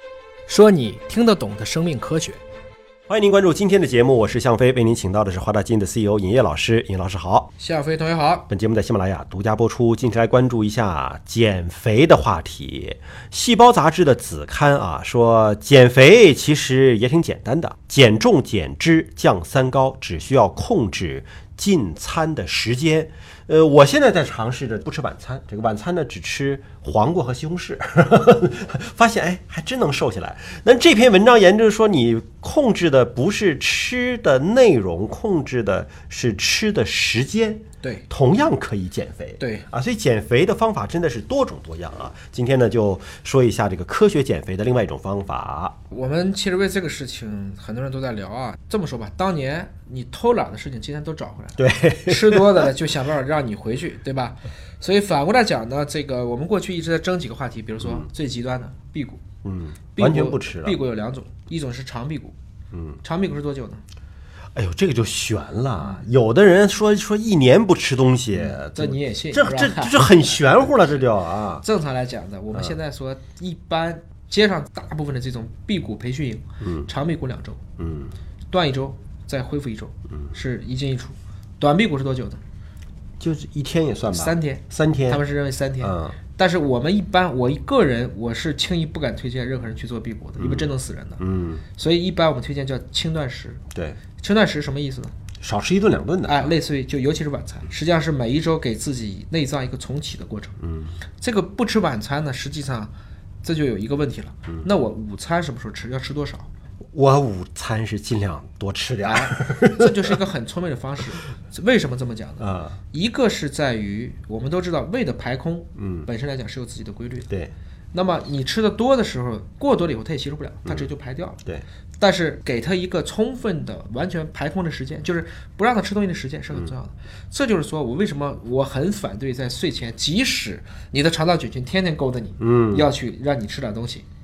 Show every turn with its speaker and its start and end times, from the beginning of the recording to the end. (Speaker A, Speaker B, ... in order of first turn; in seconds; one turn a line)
Speaker A: 0.5-2.4
Speaker B: 3.1-7.5
Speaker A: 7.6-8.5
Speaker B: 8.5-45.8
Speaker A: 39.4-39.7
Speaker A: 45.9-59.2
Speaker B: 51.6-52.7
Speaker B: 59.4-60.8
Speaker A: 60.0-62.4
Speaker B: 62.7-63.0
Speaker A: 63.0-63.8
Speaker B: 64.5-71.7
Speaker A: 65.8-66.0
Speaker A: 68.3-71.0
Speaker A: 71.6-77.6
Speaker B: 76.6-76.9
Speaker B: 77.8-78.2
Speaker A: 78.5-82.4
Speaker B: 83.2-85.2
Speaker A: 84.1-91.2
Speaker B: 85.8-86.2
Speaker B: 90.4-91.6
Speaker A: 91.7-93.6
Speaker B: 93.7-94.0
Speaker A: 94.2-95.1
Speaker B: 95.4-96.5
Speaker A: 96.3-100.6
Speaker B: 100.6-100.9
Speaker A: 101.2-102.9
Speaker A: 103.4-106.5
Speaker B: 106.9-110.2
Speaker A: 109.0-117.3
Speaker B: 112.4-112.8
Speaker B: 115.8-116.1
Speaker A: 117.9-121.4
Speaker A: 122.0-134.1
Speaker B: 132.4-132.9